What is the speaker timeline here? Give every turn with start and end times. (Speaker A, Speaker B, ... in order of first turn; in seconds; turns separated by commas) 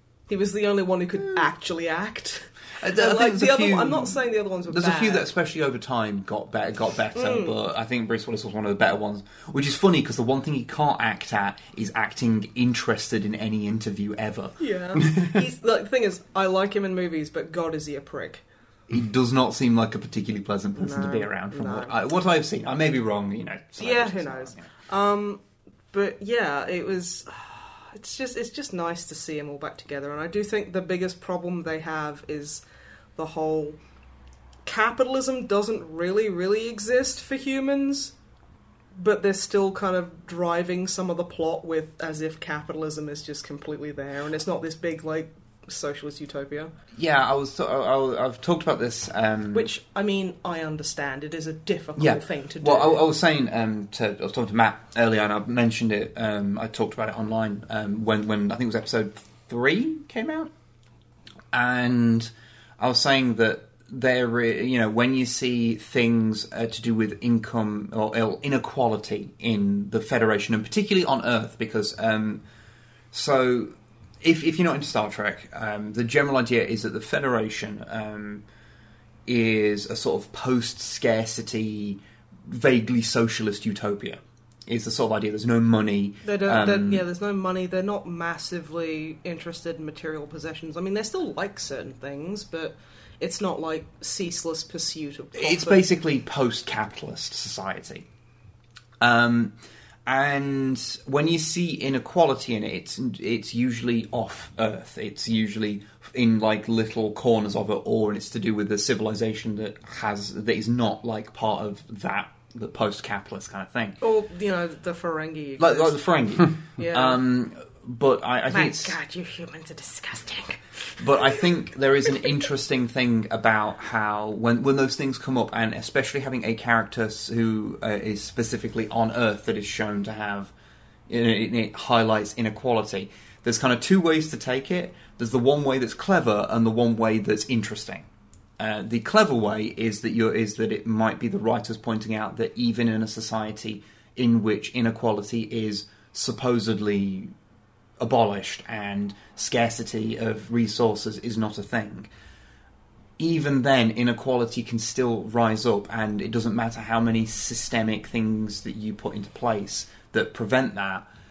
Speaker A: 0.3-5.3, Speaker B: 2.8-14.6, Speaker A: 7.1-7.5, Speaker A: 14.6-18.4, Speaker B: 18.9-24.7, Speaker A: 20.8-21.9, Speaker A: 23.8-25.4, Speaker A: 25.9-32.6, Speaker A: 33.1-33.8, Speaker A: 34.6-38.1, Speaker A: 38.9-46.7, Speaker B: 46.9-49.7, Speaker A: 49.5-53.0, Speaker B: 52.0-60.5, Speaker B: 61.5-72.4, Speaker B: 73.1-78.4, Speaker B: 79.2-87.0, Speaker A: 86.2-95.9, Speaker B: 95.3-98.1, Speaker B: 99.0-99.5, Speaker B: 100.0-114.0, Speaker A: 114.0-116.0, Speaker B: 115.6-119.0, Speaker A: 116.8-117.2, Speaker A: 118.5-121.0, Speaker B: 121.0-130.5, Speaker B: 131.1-138.1, Speaker B: 138.6-147.3, Speaker B: 148.0-152.1, Speaker B: 153.2-161.1